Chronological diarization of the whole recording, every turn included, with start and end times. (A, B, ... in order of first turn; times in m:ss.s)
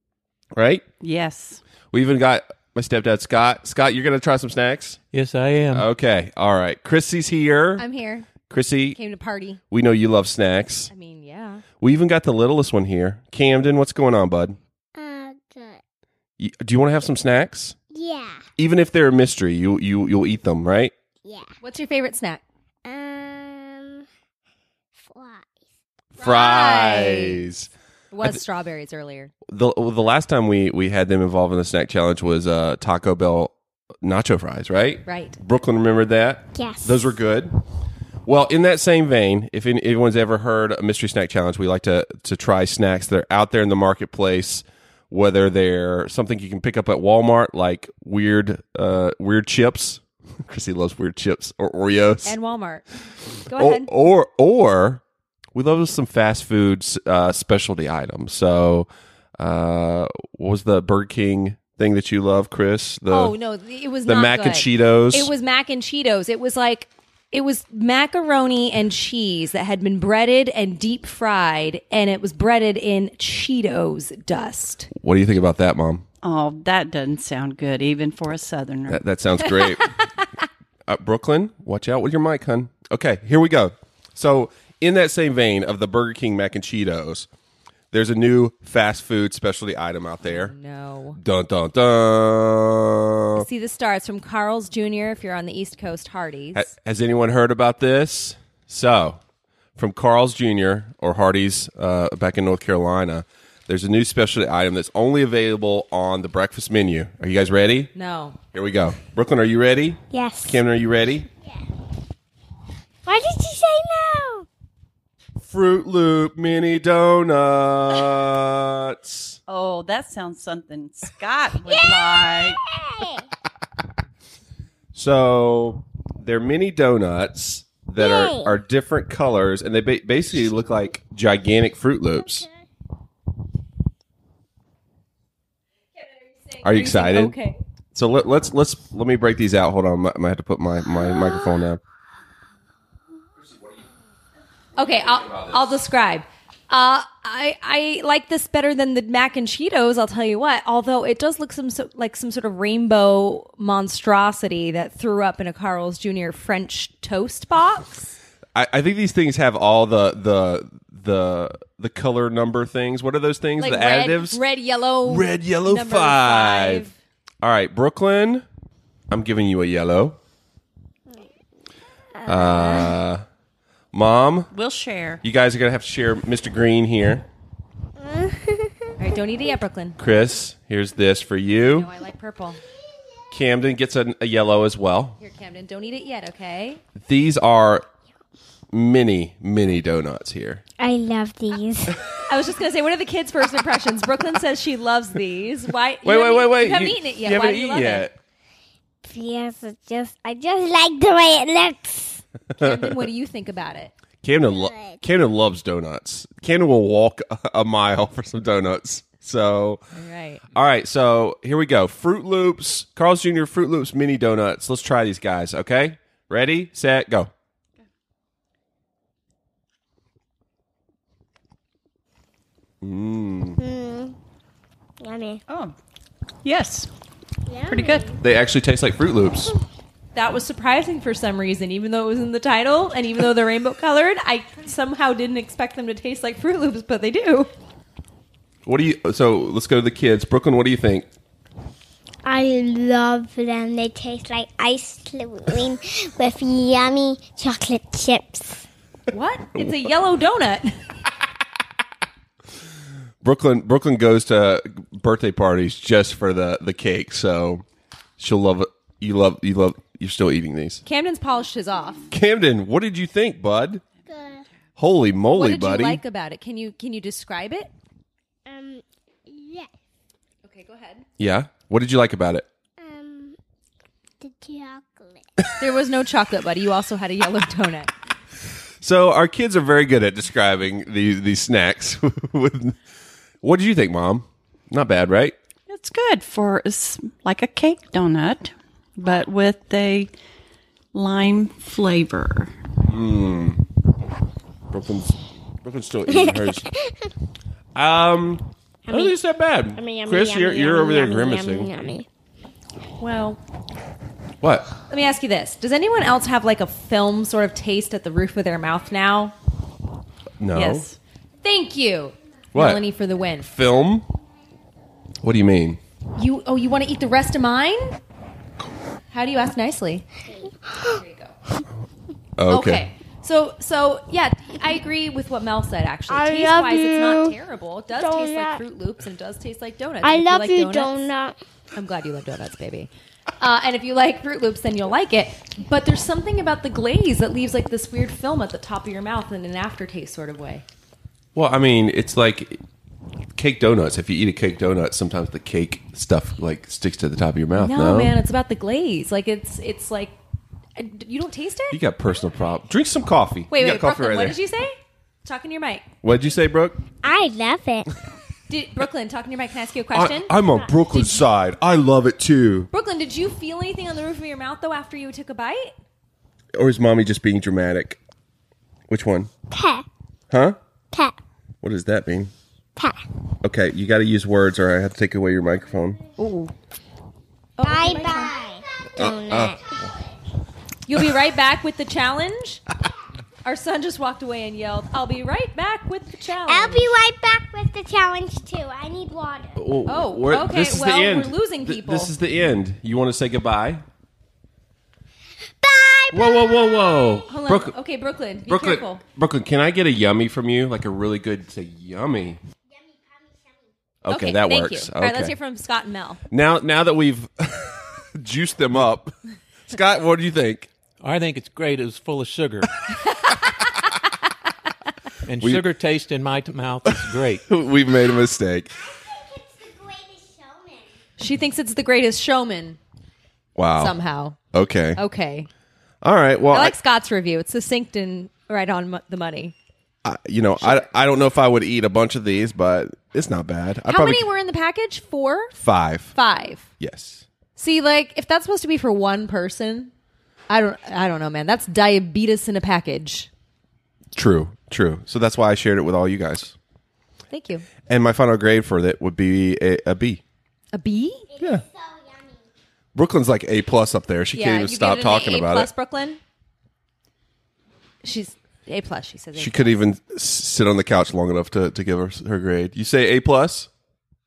0:00.5-0:00.8 A
0:01.0-0:01.6 B
0:01.9-0:05.0 A
0:05.1-0:05.9 C
0:05.7-0:07.8 A
0:07.8-0:08.3 D
0:08.5-0:09.0 A
0:08.9-0:09.6 D
0:09.7-0:10.9 A
0:10.9-0:11.6 D
0:11.8-0:14.6 A
0:14.9-0:15.8 E
0:16.4-0:17.8 A
0:17.9-0:18.4 E
0:18.6-0:20.9 A
0:21.2-0:21.5 E
0:21.6-0:22.4 D
0:22.8-0:24.0 E
0:25.0-0:25.5 E
0:26.1-0:27.7 A
0:26.2-0:27.4 D
0:28.1-0:29.3 D
0:29.4-0:37.6 A
0:35.0-0:35.4 D
0:36.5-0:37.2 E
0:38.2-0:52.4 A
0:52.2-0:52.8 D
0:53.4-0:53.9 D
0:53.5-0:55.0 A
0:55.5-1:03.3 A
1:03.1-1:14.9 D
1:04.0-1:05.3 A
1:14.9-1:16.0 A
1:16.2-1:19.0 B
1:18.9-1:19.9 A
1:20.9-1:27.3 A
1:27.9-1:30.5 A
1:30.2-1:31.2 D
1:31.2-1:33.4 A
1:33.4-1:36.7 D
1:36.5-1:39.2 A
1:39.8-1:47.9 A
1:47.9-1:48.4 D
1:48.5-1:51.3 A
1:50.1-1:50.6 E
1:53.0-1:54.4 E
1:55.4-1:59.4 A
1:59.5-2:02.6 B
2:01.6-2:03.2 E
2:04.9-2:12.4 A
2:08.0-2:08.6 E
2:12.2-2:12.5 E
2:16.4-2:17.6 D
2:16.6-2:17.3 A
2:17.9-2:21.8 A
2:24.8-2:38.1 D
2:38.5-2:44.4 A
2:43.6-2:47.0 D
2:45.0-2:46.9 A
2:47.4-2:48.4 A
2:49.1-2:50.2 A
2:52.2-2:53.0 E
2:52.2-2:53.2 A
2:53.9-2:54.5 A
2:54.5-2:55.2 B
2:55.2-2:57.3 A
2:58.0-2:58.7 E
2:59.0-3:00.0 D
3:00.0-3:01.9 A
3:01.8-3:02.6 D
3:03.3-3:05.2 A
3:05.2-3:06.8 D
3:07.0-3:07.8 A
3:08.7-3:10.6 A
3:10.8-3:12.0 E
3:12.3-3:18.1 D
3:16.0-3:18.1 A
3:19.0-3:22.2 E
3:22.5-3:23.0 A
3:22.6-3:23.9 D
3:24.2-3:29.8 A
3:24.4-3:25.0 E
3:29.9-3:30.4 D
3:30.5-3:37.3 A
3:42.8-3:43.6 A
3:43.6-3:44.1 E
3:45.0-3:45.4 E
3:45.5-3:45.7 B
3:46.4-3:46.9 B
3:47.5-3:48.2 E
3:47.7-3:48.1 B
3:48.2-3:49.5 A
3:50.1-3:57.5 D
3:58.6-4:01.1 A
4:02.2-4:08.6 E
4:09.1-4:10.7 D
4:13.2-4:17.6 A
4:18.2-4:20.8 A
4:20.8-4:22.1 D
4:22.1-4:23.8 A
4:24.1-4:24.4 E
4:24.8-4:26.0 A
4:25.3-4:27.7 D
4:28.4-4:29.7 E
4:30.4-4:31.0 D
4:31.2-4:32.5 A
4:32.8-4:33.4 E
4:34.2-4:35.2 E
4:35.6-4:37.9 D
4:38.8-4:42.8 A
4:43.4-4:45.3 A
4:45.7-4:50.1 B
4:50.9-4:52.5 B
4:52.8-4:53.6 A
4:54.7-4:56.7 A
4:56.1-4:57.1 E
4:57.7-5:01.7 A
4:58.9-4:59.1 E
4:59.7-5:02.0 E
5:03.0-5:03.4 D
5:04.4-5:04.7 A
5:04.9-5:09.3 D
5:10.4-5:10.9 A
5:10.5-5:11.0 B
5:11.4-5:13.5 D
5:12.5-5:12.8 A
5:13.4-5:14.1 A
5:15.2-5:15.8 A
5:16.2-5:18.0 D
5:19.1-5:21.3 D
5:22.4-5:22.9 A
5:22.5-5:31.1 D
5:26.1-5:27.4 E
5:27.9-5:28.6 E
5:30.0-5:31.4 E
5:31.7-5:32.9 D
5:33.4-5:40.6 D
5:41.3-5:42.6 A
5:43.3-5:48.1 A
5:47.6-5:50.2 D
5:50.8-5:51.8 D
5:51.7-5:54.4 A
5:53.5-5:55.8 D
5:56.0-5:56.8 A
5:57.0-5:57.9 E
5:58.5-6:00.4 D
5:59.9-6:02.7 A
6:02.7-6:05.7 D
6:06.5-6:08.0 A
6:08.9-6:09.3 A
6:09.5-6:09.8 E
6:10.3-6:10.6 A
6:11.6-6:12.3 A
6:13.4-6:16.0 A
6:16.2-6:16.5 D
6:17.6-6:18.4 D
6:17.6-6:19.7 E
6:19.0-6:19.9 A
6:20.8-6:22.6 D
6:23.4-6:26.9 D
6:26.5-6:29.6 E
6:29.6-6:33.8 A
6:29.9-6:32.1 D
6:35.6-6:37.2 E
6:36.1-6:37.8 A
6:37.3-6:39.0 D
6:38.5-6:42.4 A
6:42.7-6:43.7 E
6:44.0-6:45.3 A
6:44.1-6:46.2 D
6:46.3-6:49.1 A
6:49.7-6:50.7 A
6:51.0-6:52.7 C
6:55.2-6:57.4 C
6:57.1-6:58.7 A
6:58.8-7:00.8 E
7:01.2-7:02.8 D
7:03.6-7:03.9 A
7:03.8-7:04.4 D
7:04.5-7:05.0 A
7:05.0-7:05.5 D
7:06.0-7:06.8 A
7:06.5-7:09.5 D
7:10.0-7:14.3 A
7:13.9-7:15.6 D
7:15.6-7:16.1 A
7:16.1-7:16.7 D
7:16.8-7:17.2 A
7:17.6-7:19.9 D
7:20.5-7:23.3 D
7:24.1-7:26.5 A
7:27.3-7:27.6 D
7:27.9-7:30.2 A
7:30.7-7:31.3 D
7:31.3-7:32.4 E
7:31.4-7:31.6 A
7:32.9-7:35.7 A
7:34.3-7:36.2 D
7:38.0-7:39.7 D
7:39.4-7:43.7 A